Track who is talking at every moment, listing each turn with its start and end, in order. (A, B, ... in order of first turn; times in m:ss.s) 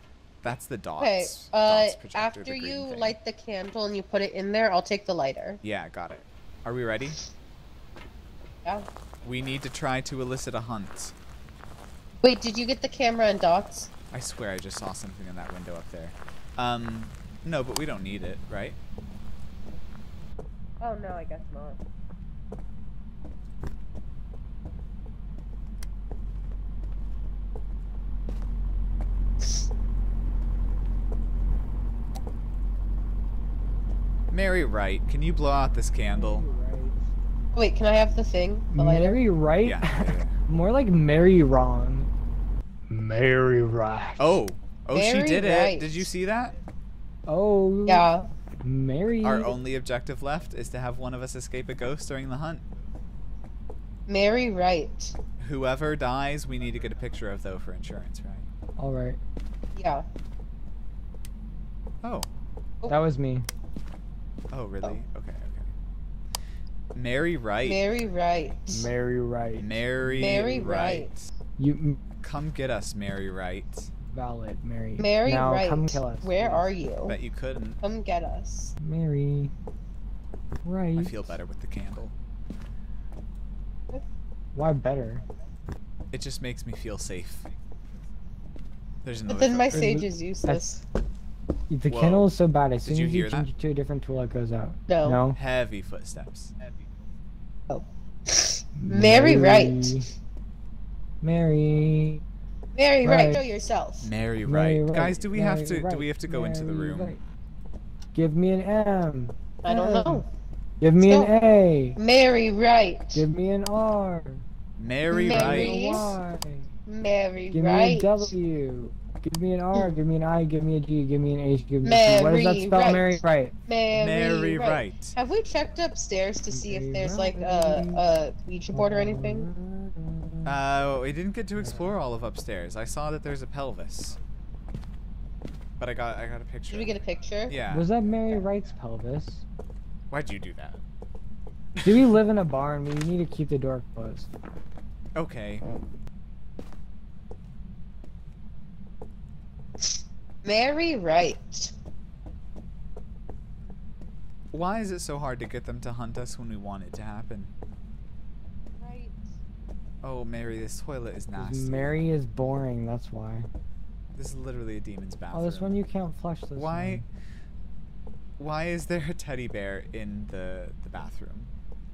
0:00.4-0:03.2 A
0:01.0-0:05.6 B
0:05.6-0:07.2 A
0:09.2-0:11.2 A
0:12.2-0:13.9 B
0:14.1-0:18.8 A
0:20.8-0:21.8 B
0:34.3-0:36.5 A
0:36.1-0:37.1 C
0:37.5-0:39.2 B
0:38.7-0:42.1 C
0:39.6-0:40.4 A
0:42.9-0:44.4 C
0:44.2-0:46.6 A
0:44.9-0:46.0 B
0:47.3-0:48.1 C
0:47.9-0:48.3 B
0:48.6-0:49.6 C
0:49.2-0:52.6 A
0:54.1-0:55.2 B
0:55.4-0:58.5 A
0:58.8-0:59.2 C
0:59.8-1:00.0 B
1:02.0-1:02.3 A
1:02.9-1:03.5 C
1:04.5-1:05.7 A
1:06.9-1:07.8 A
1:07.6-1:08.9 B
1:08.7-1:10.4 C
1:09.6-1:11.3 A
1:10.2-1:11.1 B
1:11.6-1:12.0 C
1:12.2-1:13.9 A
1:14.1-1:16.7 C
1:15.0-1:17.2 B
1:17.1-1:17.8 A
1:17.8-1:18.8 B
1:18.8-1:19.5 C
1:20.6-1:21.4 C
1:21.0-1:22.2 A
1:24.6-1:25.2 C
1:26.1-1:27.5 A
1:29.0-1:30.0 A
1:29.3-1:30.8 B
1:29.7-1:30.6 C
1:31.7-1:35.4 C
1:31.9-1:32.3 A
1:32.8-1:33.5 A
1:34.9-1:35.2 B
1:35.3-1:36.5 A
1:37.7-1:40.0 B
1:38.8-1:40.1 C
1:41.2-1:42.2 C
1:42.8-1:44.1 B
1:43.0-1:43.4 C
1:44.0-1:47.2 A
1:44.5-1:47.2 C
1:48.1-1:50.3 C
1:49.6-1:50.2 B
1:50.8-1:52.0 C
1:51.0-1:51.3 B
1:52.0-1:53.2 B
1:53.2-1:54.4 C
1:54.8-1:56.0 A
1:55.1-1:56.2 B
1:55.2-1:56.7 C
1:56.9-1:58.3 B
1:57.5-2:03.5 C
2:01.8-2:09.5 B
2:03.9-2:05.2 A
2:06.5-2:08.0 C
2:08.7-2:10.6 C
2:10.5-2:14.2 A
2:11.6-2:11.9 C
2:15.8-2:17.0 A
2:16.7-2:17.6 B
2:17.5-2:17.9 A
2:17.7-2:19.4 C
2:20.1-2:20.8 A
2:21.8-2:22.2 A
2:21.8-2:24.3 C
2:25.2-2:25.7 A
2:29.8-2:31.7 B
2:34.5-2:37.5 A
2:38.8-2:39.2 B
2:40.0-2:42.0 A
2:41.4-2:43.5 C
2:44.1-2:45.8 A
2:45.3-2:47.0 C
2:46.6-2:47.0 A
2:48.4-2:51.5 A